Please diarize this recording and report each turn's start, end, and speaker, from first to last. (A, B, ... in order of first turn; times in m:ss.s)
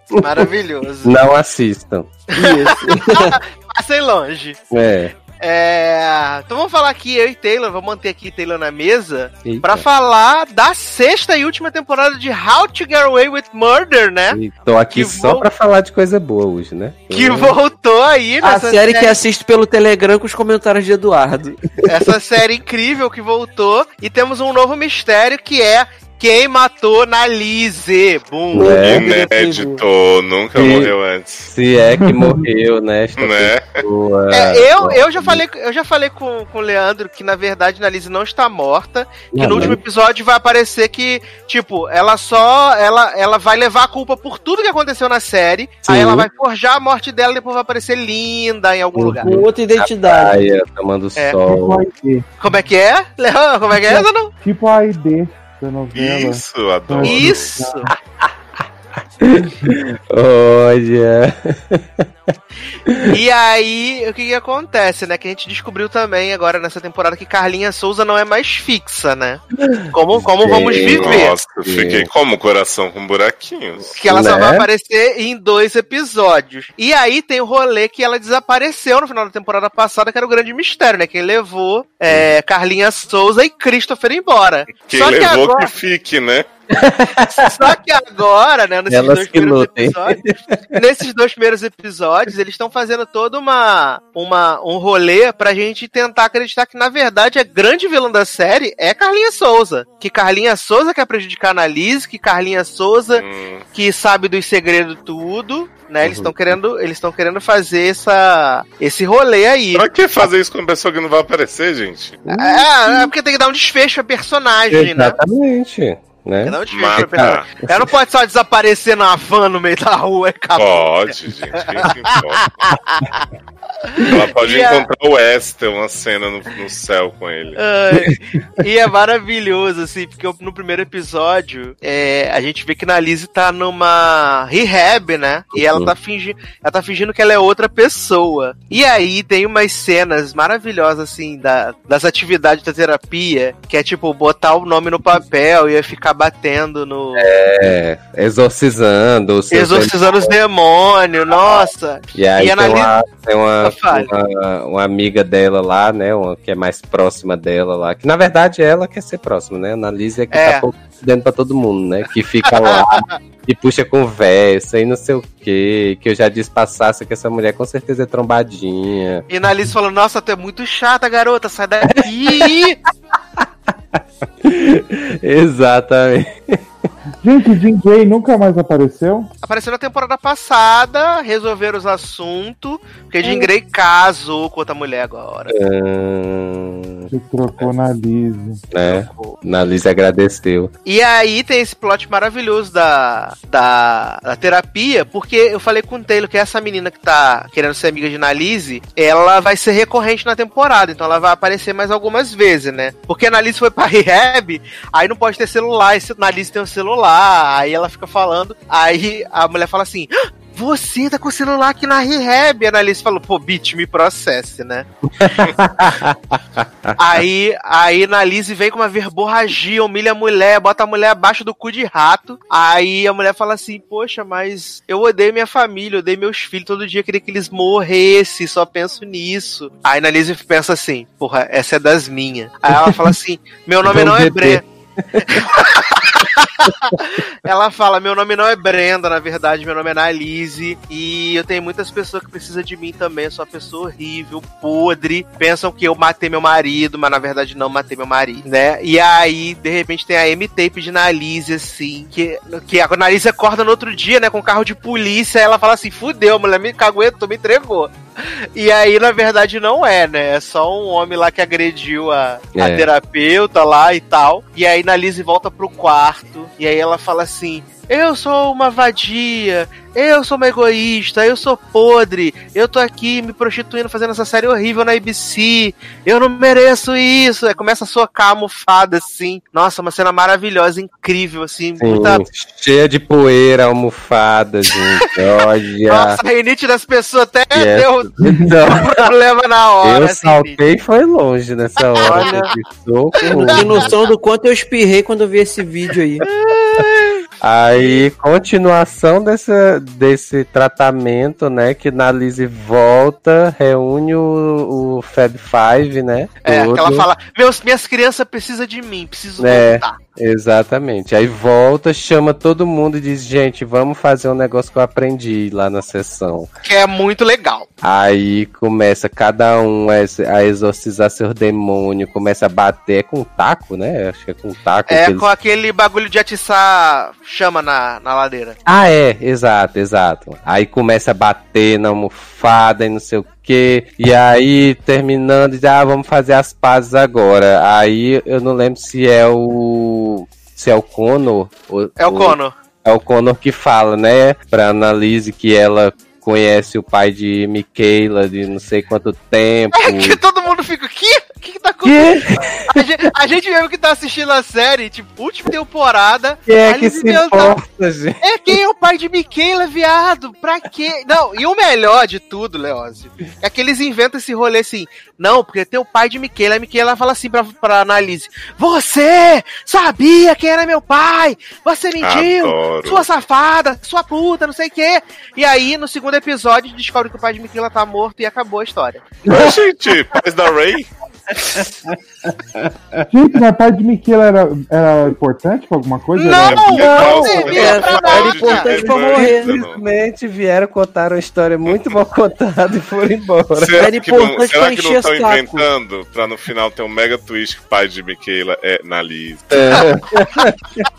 0:00.1-0:00.4 A
0:00.2-0:01.2 B
0:01.0-0:02.1 A
0:02.3-0:04.6 B
0:02.4-0:03.4 C
0:04.7-0:05.2 A
0:05.2-0:15.5 B
0:09.4-0:09.8 A
0:14.3-0:17.6 A
0:17.1-0:19.2 B
0:18.4-0:21.9 C
0:21.9-0:28.9 B
0:28.5-0:29.8 C
0:28.6-0:29.0 A
0:28.9-0:31.5 D
0:30.6-0:30.9 A
0:31.5-0:35.4 A
0:31.9-0:32.5 E
0:33.2-0:33.8 D
0:34.3-0:49.3 B
0:39.3-0:39.8 A
0:45.8-0:46.3 A
0:48.9-0:51.8 A
0:49.2-0:50.4 C
0:51.2-0:51.4 B
0:51.5-0:52.2 E
0:52.4-0:54.3 B
0:54.4-0:57.8 E
0:55.9-0:57.5 D
0:57.0-0:57.9 B
0:57.9-0:58.3 A
0:59.2-1:02.3 A
1:02.9-1:03.2 A
1:03.0-1:11.4 B
1:09.6-1:12.1 A
1:10.6-1:13.9 D
1:14.0-1:25.7 B
1:14.1-1:14.7 A
1:24.9-1:26.5 D
1:26.7-1:27.6 A
1:27.3-1:30.2 B
1:28.9-1:30.8 A
1:30.8-1:43.2 B
1:43.1-1:43.6 D
1:43.7-1:49.8 B
1:46.0-1:46.3 A
1:49.7-1:52.2 D
1:52.3-1:53.0 A
1:52.3-1:55.2 B
1:54.7-1:57.9 A
1:56.4-2:03.3 B
1:56.7-1:57.6 D
2:00.6-2:02.6 D
2:03.8-2:04.8 B
2:04.0-2:07.6 D
2:07.6-2:27.4 B
2:15.6-2:15.9 A
2:27.2-2:30.3 A
2:29.5-2:32.9 B
2:32.1-2:49.2 A
2:33.6-2:34.1 B
2:40.3-2:40.6 B
2:42.4-2:43.2 B
2:49.3-2:52.8 B
2:51.9-2:52.5 A
2:54.4-2:56.6 A
2:57.2-2:59.3 E
2:59.4-3:05.5 B
3:05.5-3:07.1 A
3:07.1-3:08.6 E
3:08.7-3:10.7 A
3:08.9-3:09.4 B
3:10.8-3:35.5 B
3:35.0-3:37.0 A
3:37.0-3:54.6 B
3:53.8-3:55.2 A
3:55.3-4:17.9 B
4:18.6-4:42.2 B
4:22.5-4:22.9 A
4:41.8-4:46.2 A
4:45.0-4:45.3 B
4:45.9-4:48.1 B
4:47.5-4:49.1 A
4:48.2-4:48.5 E
4:48.6-4:50.6 B
4:49.8-4:53.9 A
4:51.8-4:52.5 B
4:52.0-4:52.5 C
4:53.2-4:53.7 B
4:53.4-4:56.2 C
4:56.3-4:57.2 B
4:57.4-5:07.1 A
4:57.7-4:58.0 B
5:06.4-5:10.0 B
5:09.4-5:16.5 A
5:16.6-5:17.7 B
5:17.8-5:25.3 A
5:24.9-5:28.6 B
5:28.6-5:50.2 A
5:42.0-5:42.6 B
5:49.8-5:57.6 B
5:51.8-5:52.8 A
5:56.4-5:58.5 A
5:58.2-6:19.1 B
6:12.0-6:13.0 D
6:19.3-6:19.6 A
6:19.3-6:20.9 D
6:21.6-6:23.0 A
6:23.1-6:26.9 E
6:26.2-6:28.7 B
6:26.4-6:29.8 D
6:26.8-6:28.1 A
6:26.9-6:29.6 C
6:28.9-6:33.9 A
6:31.7-6:32.0 D
6:33.5-6:39.8 D
6:33.8-6:35.6 C
6:39.5-6:40.8 A